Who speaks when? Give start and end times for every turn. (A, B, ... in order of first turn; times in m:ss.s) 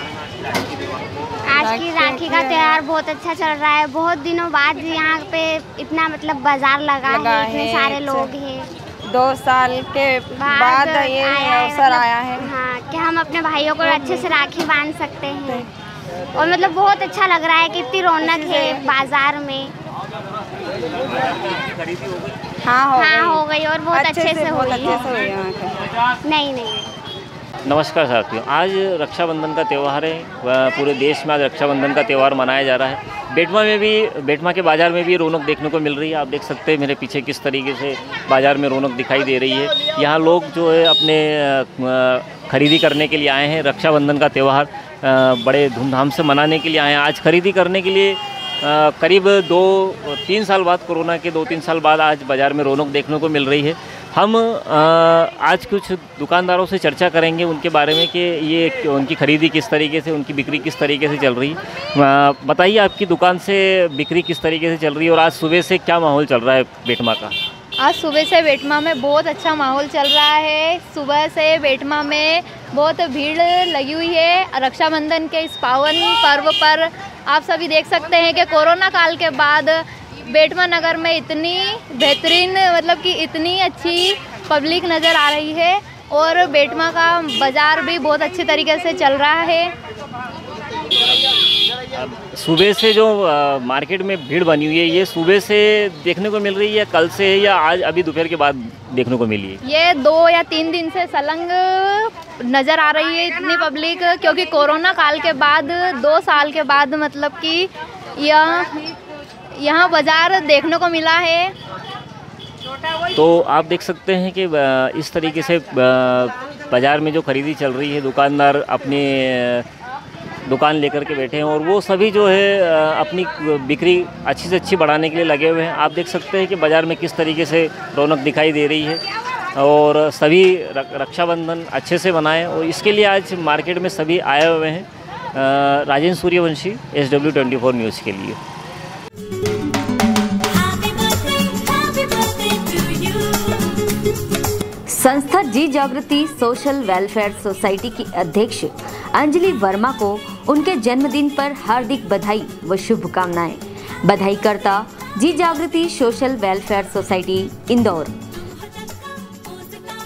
0:01.4-0:08.7 A
0:01.7-0:02.2 B
0:10.4-0:15.7 A
0:16.3-0:19.7 A
0:22.7-0:23.3 B
0:22.9-0:25.2 A
0:24.8-0:25.8 B
0:26.2-0:26.9 A
0:27.6-1:07.3 C
1:07.8-1:29.7 D
1:31.9-1:39.6 C
1:39.6-1:48.8 D
1:49.6-1:51.5 D
1:53.1-1:59.6 C
2:00.4-2:09.0 C
2:09.6-2:18.4 C
2:20.6-2:23.2 C
2:24.9-2:38.1 E